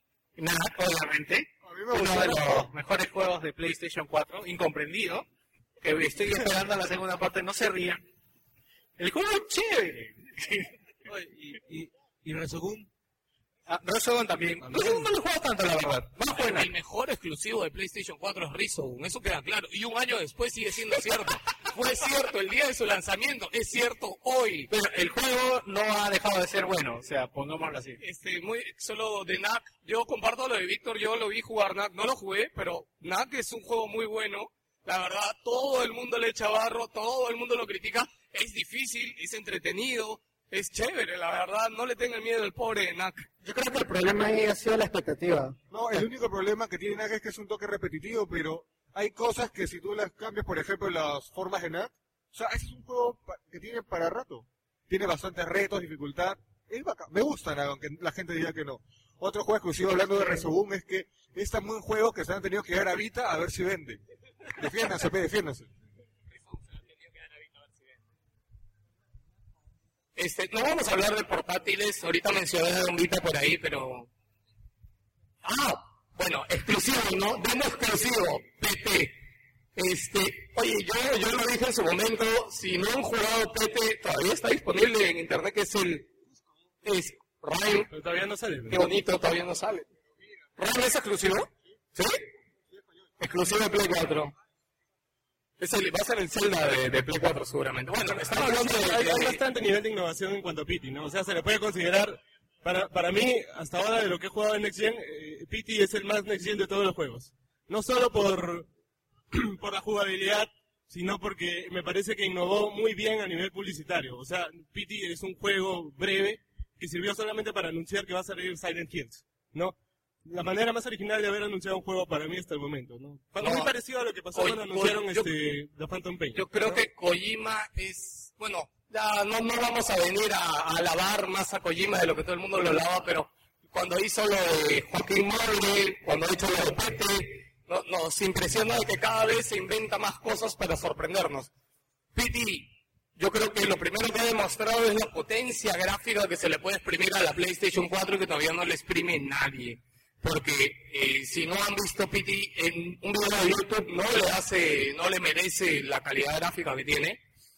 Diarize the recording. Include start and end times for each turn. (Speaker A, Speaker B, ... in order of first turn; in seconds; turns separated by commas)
Speaker A: 0.4-5.2, Speaker B: 1.6-2.5, Speaker A: 5.8-8.0, Speaker A: 9.0-12.9, Speaker A: 13.7-16.7, Speaker C: 14.7-15.1, Speaker C: 16.4-24.7, Speaker A: 24.7-28.0, Speaker C: 28.0-43.3, Speaker D: 43.4-45.6, Speaker B: 45.7-64.0, Speaker B: 64.5-65.7, Speaker C: 66.3-68.0, Speaker C: 70.2-74.1, Speaker C: 75.4-79.2, Speaker C: 79.8-86.1, Speaker C: 86.8-87.9, Speaker E: 87.9-88.8, Speaker C: 88.7-89.9, Speaker C: 90.6-92.2, Speaker C: 93.2-94.3, Speaker C: 95.6-99.4, Speaker E: 98.2-108.7, Speaker E: 109.3-126.7, Speaker C: 123.4-123.7, Speaker C: 124.3-125.3, Speaker C: 126.3-141.5, Speaker C: 142.1-157.2